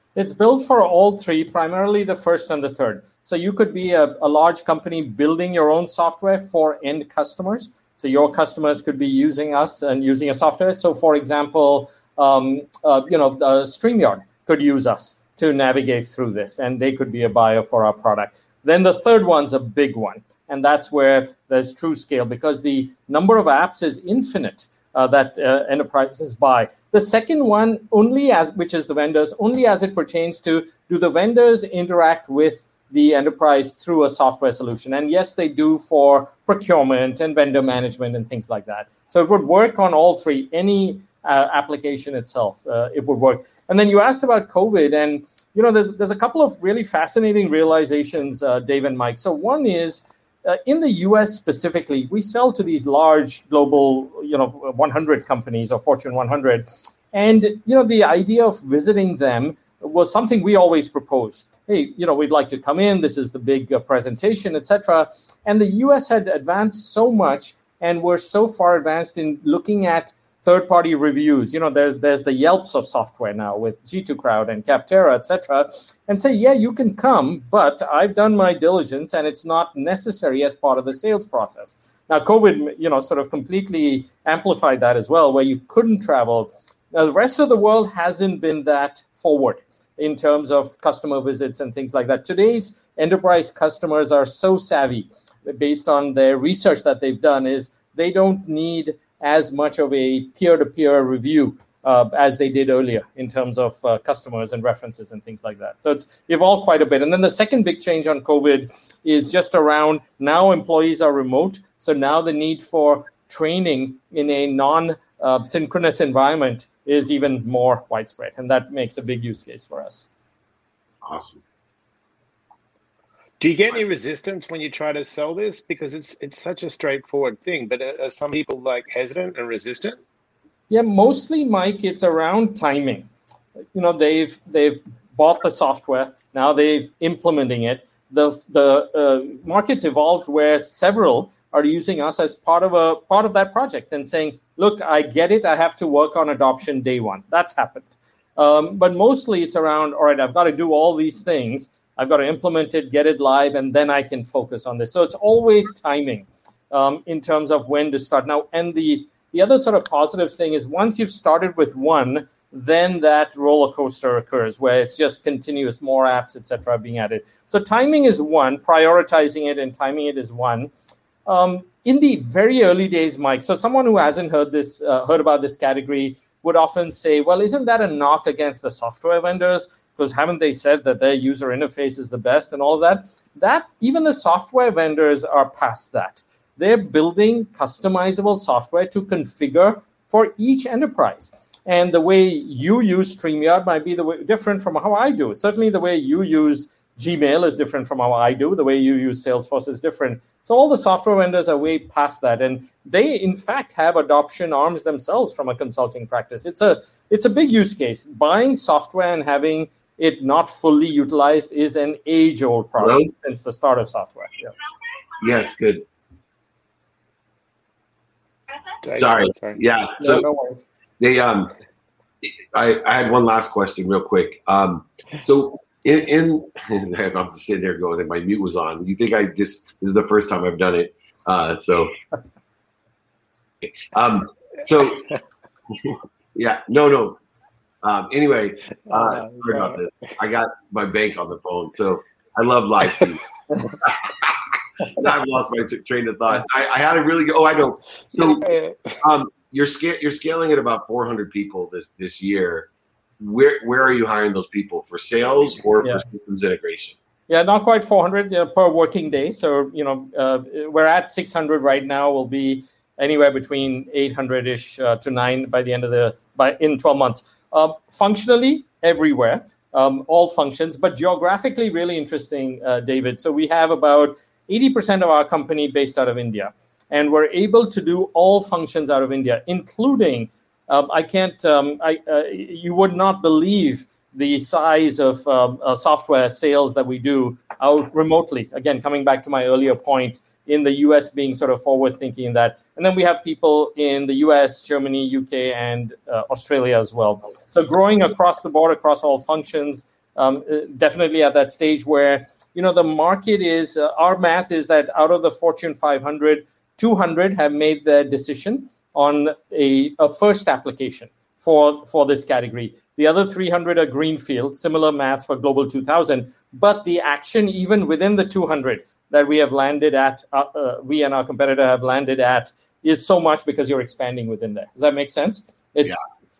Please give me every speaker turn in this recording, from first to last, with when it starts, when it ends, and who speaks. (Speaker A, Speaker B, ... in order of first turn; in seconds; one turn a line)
Speaker A: 0.2-120.1
Speaker B: 121.0-121.4
Speaker C: 123.4-130.0
Speaker A: 130.7-133.1
Speaker A: 133.7-170.7
Speaker A: 171.3-214.5
Speaker B: 212.8-213.1
Speaker B: 215.2-215.8
Speaker C: 218.8-219.6
Speaker B: 218.9-220.3
Speaker A: 220.0-220.7
Speaker B: 221.0-221.5
Speaker B: 222.2-231.9
Speaker B: 233.9-235.1
Speaker B: 235.8-237.2
Speaker B: 237.8-243.3
Speaker C: 238.9-239.8
Speaker B: 243.8-248.5
Speaker C: 248.2-249.0
Speaker B: 249.0-257.0
Speaker A: 257.3-326.0